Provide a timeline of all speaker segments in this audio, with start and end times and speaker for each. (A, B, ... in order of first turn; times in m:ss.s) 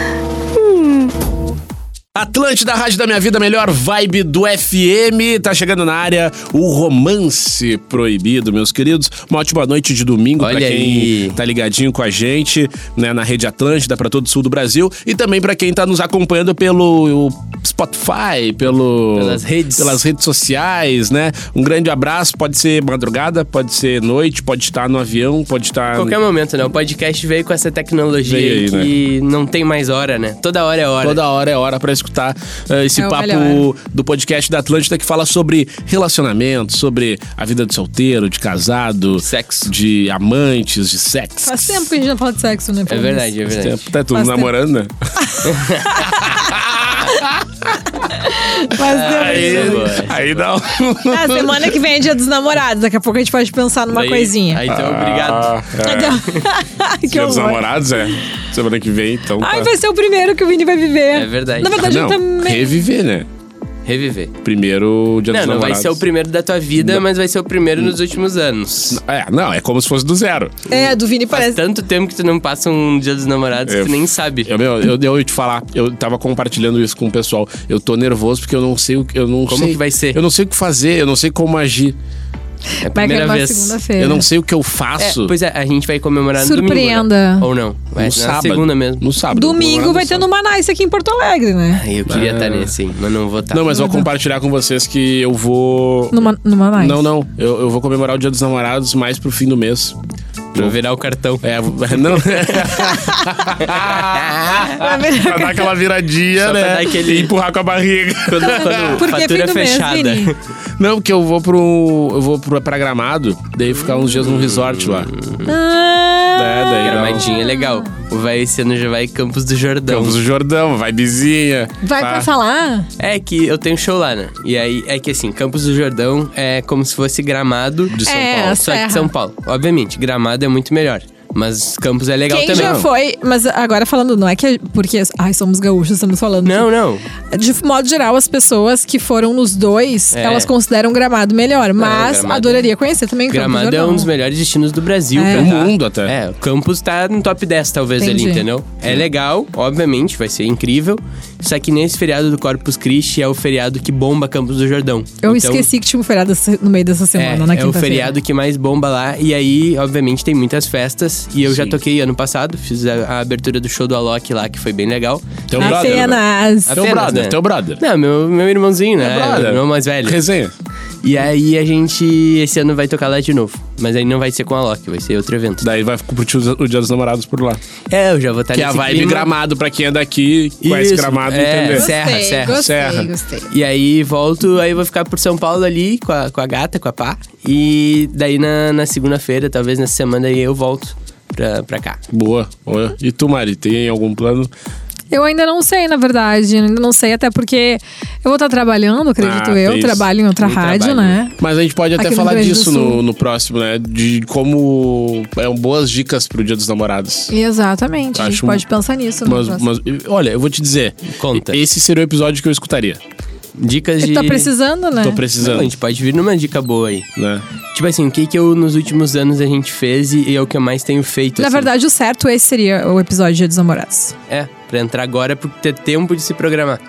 0:02.2-0:26.2 A
0:10.4-0:11.4 B
0:19.2-0:20.0 B
0:25.9-0:31.2 B
0:28.2-0:28.9 A
0:31.0-0:41.9 A
0:33.0-0:33.6 C
0:39.2-0:39.7 B
0:41.5-0:43.3 C
0:42.9-0:43.8 B
0:43.5-0:47.8 A
0:44.1-0:44.5 C
0:45.3-0:46.5 C
0:45.4-0:46.2 B
0:48.0-0:50.1 C
0:48.8-0:50.4 B
0:48.9-0:51.8 A
0:51.1-0:54.6 C
0:53.9-0:55.8 B
0:54.7-0:56.2 A
0:55.8-0:57.7 C
0:57.1-0:59.7 A
0:59.4-1:02.8 C
1:01.1-1:01.8 B
1:01.7-1:03.3 A
1:03.8-1:04.3 B
1:04.4-1:06.1 A
1:05.3-1:09.0 B
1:08.9-1:10.5 A
1:10.7-1:11.6 C
1:11.3-1:14.5 B
1:13.7-1:22.0 A
1:19.5-1:20.2 B
1:22.8-1:24.3 C
1:22.8-1:23.8 B
1:24.0-1:25.3 A
1:25.0-1:29.0 B
1:26.4-1:27.5 C
1:28.0-1:30.3 A
1:29.3-1:31.8 C
1:31.7-1:33.8 B
1:32.1-1:32.7 A
1:33.5-1:36.2 A
1:33.7-1:34.1 C
1:36.1-1:37.0 C
1:36.8-1:40.0 A
1:40.5-1:42.7 B
1:41.4-1:49.1 A
1:42.9-1:43.5 C
1:43.6-1:44.7 B
1:44.6-1:45.8 C
1:46.4-1:47.3 B
1:48.3-1:50.4 B
1:48.4-1:50.3 C
1:50.8-1:55.1 A
1:54.0-1:55.5 B
1:55.5-1:57.9 C
1:56.4-1:57.2 A
1:56.8-2:00.2 B
1:59.9-2:02.3 A
2:01.8-2:02.9 C
2:03.0-2:12.8 B
2:07.9-2:08.5 A
2:08.0-2:09.1 C
2:12.3-2:16.7 C
2:12.5-2:12.9 A
2:16.4-2:17.0 B
2:17.3-2:24.1 C
2:20.1-2:20.5 B
2:21.8-2:22.7 B
2:23.3-2:35.7 B
2:25.2-2:25.5 C
2:25.3-2:26.2 A
2:28.0-2:28.4 C
2:35.2-2:38.2 C
2:37.2-2:46.1 B
2:41.5-2:41.8 A
2:45.5-2:47.8 A
2:45.6-2:46.8 C
2:46.7-2:50.2 B
2:49.0-2:50.5 A
2:51.0-2:55.7 B
2:55.6-2:57.6 A
2:57.9-2:59.3 B
2:58.5-3:03.1 A
3:00.6-3:02.7 B
3:01.7-3:03.5 C
3:03.5-3:12.0 B
3:12.1-3:14.5 A
3:15.1-3:21.3 C
3:19.2-3:20.1 A
3:20.4-3:21.2 B
3:21.4-3:27.3 A
3:22.0-3:23.0 C
3:27.3-3:29.6 C
3:28.2-3:28.6 A
3:29.2-3:33.0 A
3:31.2-3:31.6 B
3:33.6-3:34.5 B
3:34.0-3:35.2 C
3:35.0-3:35.7 A
3:35.4-3:37.1 B
3:37.2-3:37.4 A
3:37.7-3:41.7 B
3:41.4-3:44.2 C
3:44.3-3:46.8 B